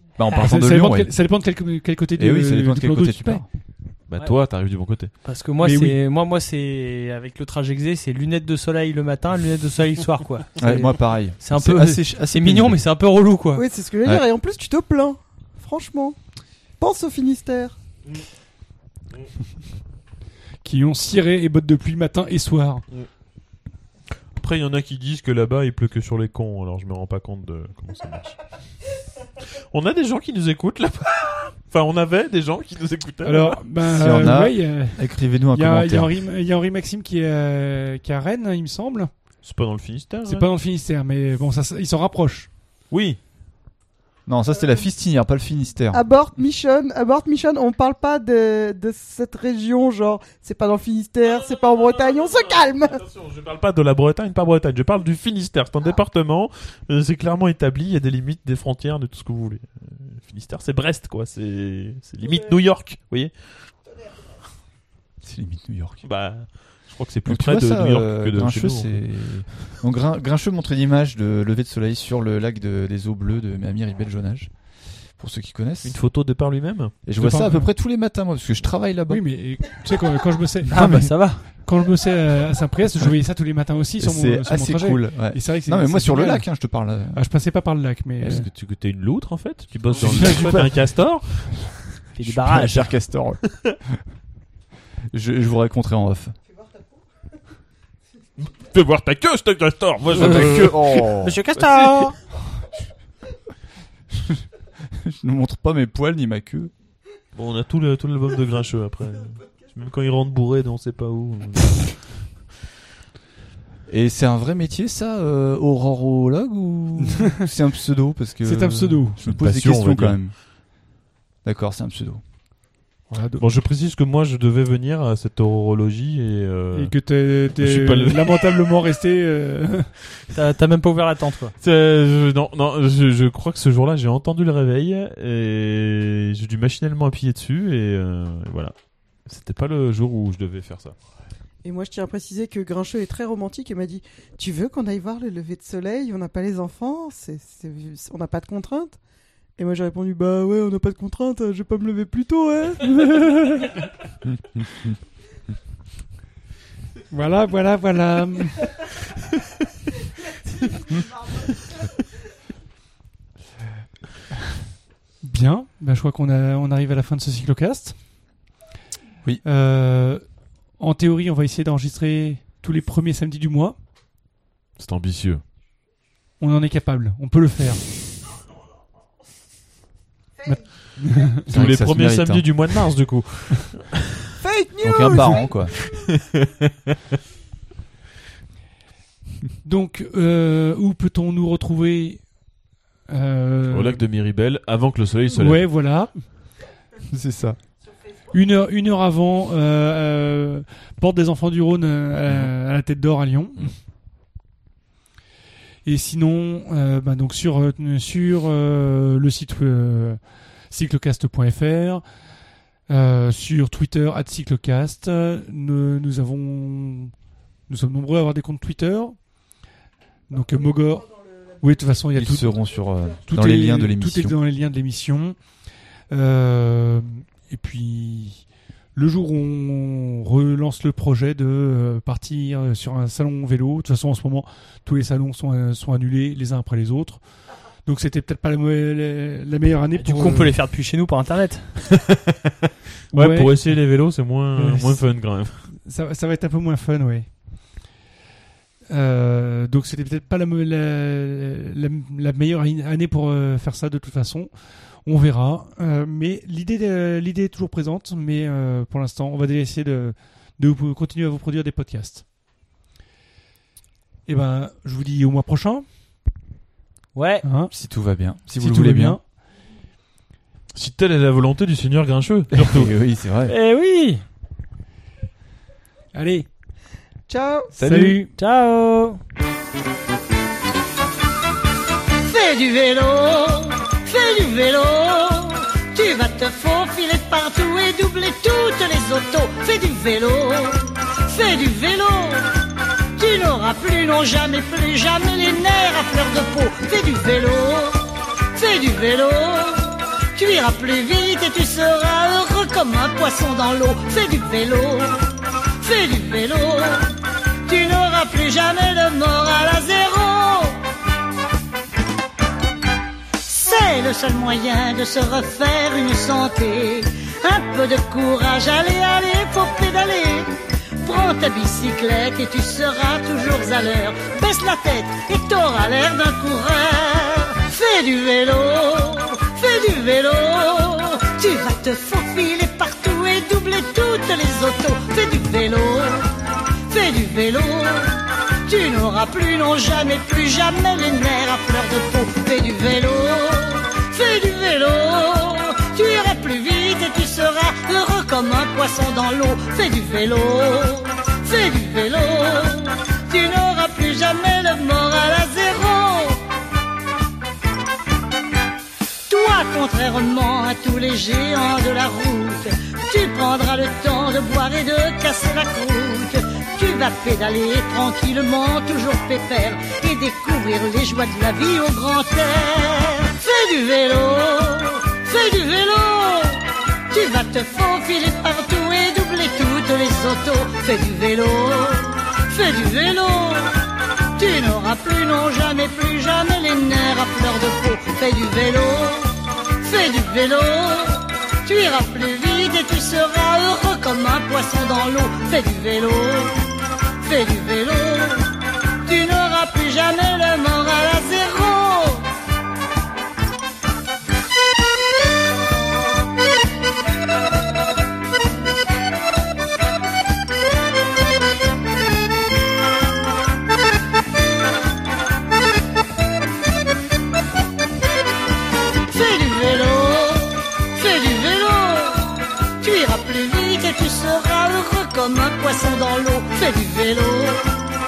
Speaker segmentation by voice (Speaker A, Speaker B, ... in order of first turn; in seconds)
Speaker A: 0.2-1.1, 2.2-3.5, 10.6-12.8, 33.9-36.1, 44.3-46.0, 65.2-66.0, 67.3-74.5, 75.2-76.0, 77.1-79.2, 80.7-81.4, 84.0-87.2, 90.2-90.5, 92.2-93.8, 95.1-96.3, 100.1-101.4, 104.9-106.7, 113.9-120.3, 121.4-122.2, 181.5-182.5, 184.8-185.7, 197.1-197.6, 222.2-224.4, 267.7-269.2, 272.5-273.5, 277.8-278.2
Speaker B: 0.3-3.5, 5.6-6.0, 20.6-22.9, 33.2-39.1, 40.3-42.5, 77.2-77.7, 79.1-86.5, 87.1-88.5, 90.1-90.6, 117.1-117.4, 118.4-119.2, 123.1-123.5, 126.7-129.9, 157.1-158.8, 165.2-168.0, 169.4-170.2, 170.8-173.8, 176.4-177.8, 180.5-181.6, 189.6-192.2, 193.1-194.0, 195.3-196.2, 198.3-203.7, 205.8-212.0, 212.9-217.1, 217.7-219.2, 220.3-222.6, 223.3-225.4, 226.1-237.2, 237.8-240.6, 243.1-243.8, 244.5-245.1, 245.7-247.3, 248.9-262.2, 264.3-265.9, 267.4-267.7, 268.5-269.2, 276.1-276.5, 277.8-278.3
Speaker C: 4.1-5.1, 24.4-28.5, 29.6-33.6, 39.4-40.5, 42.9-43.2, 51.3-63.5, 66.0-69.8, 75.8-77.0, 88.2-91.8, 98.4-102.1, 107.3-112.2, 119.2-120.2, 123.4-127.0, 127.6-128.8, 131.6-138.7, 139.3-140.9, 174.8-175.4, 181.5-184.3, 185.7-186.7, 193.7-195.7, 243.1-245.7, 270.8-272.9
Speaker D: 5.2-13.7, 80.7-81.5, 92.2-92.9, 100.2-102.2, 130.3-131.5, 239.9-241.8, 267.1-267.5, 273.5-274.2, 277.8-279.2
Speaker E: 13.6-16.2, 16.8-17.8, 45.9-53.0, 141.6-149.0, 149.6-153.7, 184.4-185.5, 277.3-277.7
Speaker F: 282.2-292.5, 293.2-305.2, 305.8-310.8, 313.4-336.3, 336.9-356.4, 359.3-383.7, 384.4-396.6, 397.2-398.5, 399.0-402.3, 419.1-427.7